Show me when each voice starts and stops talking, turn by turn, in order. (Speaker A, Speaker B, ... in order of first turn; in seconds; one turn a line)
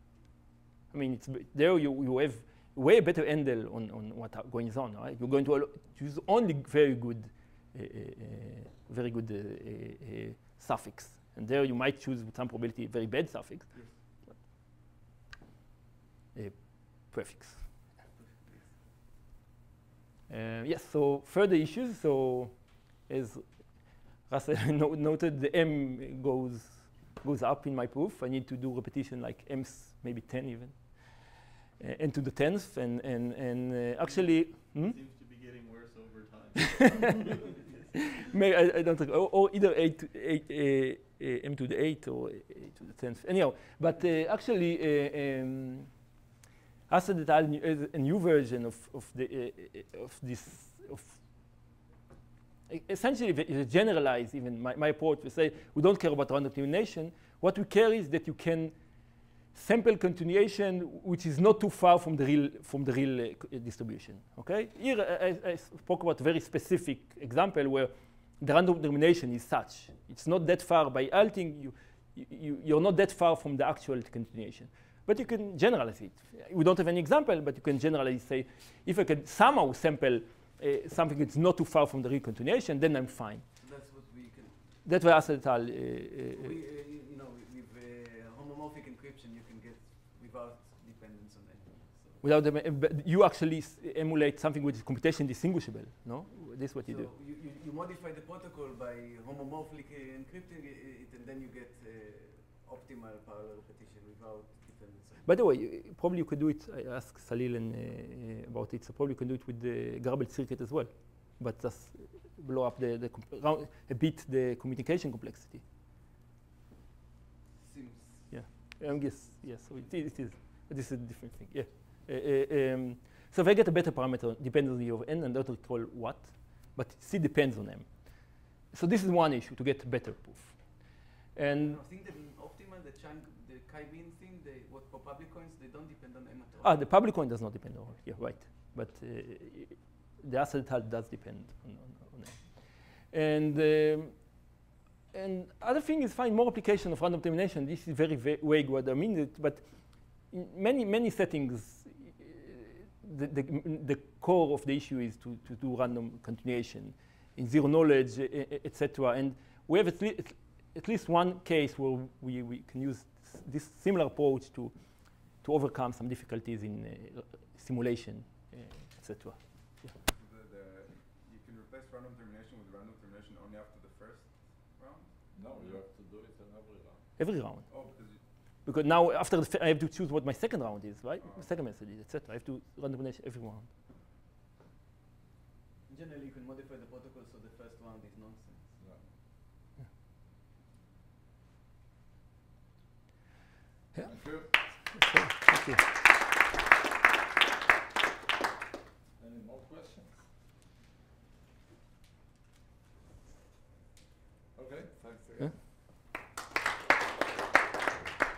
Speaker A: 0.9-13.7
Speaker A: 16.3-17.6
Speaker B: 18.1-18.8
Speaker A: 20.3-23.4
Speaker A: 24.3-31.3
Speaker A: 31.8-34.9
Speaker C: 34.0-38.0
Speaker A: 38.2-45.9
Speaker A: 46.9-51.2
Speaker A: 52.7-58.7
Speaker A: 59.5-83.4
Speaker B: 83.6-84.6
Speaker A: 84.8-86.5
Speaker B: 86.3-92.2
Speaker A: 92.2-97.1
Speaker B: 96.8-105.4
Speaker A: 105.2-115.6
Speaker B: 117.6-120.0
Speaker A: 118.3-127.9
Speaker A: 128.7-130.6
Speaker A: 131.3-131.8
Speaker B: 131.4-136.9
Speaker A: 136.6-142.5
Speaker A: 143.1-144.2
Speaker A: 145.1-149.7
Speaker A: 150.3-164.7
Speaker A: 165.4-169.4
Speaker D: 170.2-175.1
Speaker E: 175.3-177.1
Speaker A: 177.2-177.6
Speaker D: 177.7-178.2
Speaker A: 178.7-183.7
Speaker D: 181.2-181.5
Speaker B: 185.9-188.7
Speaker E: 188.8-189.0
Speaker E: 194.0-194.6
Speaker A: 194.9-195.8
Speaker E: 199.2-200.2
Speaker E: 204.5-205.6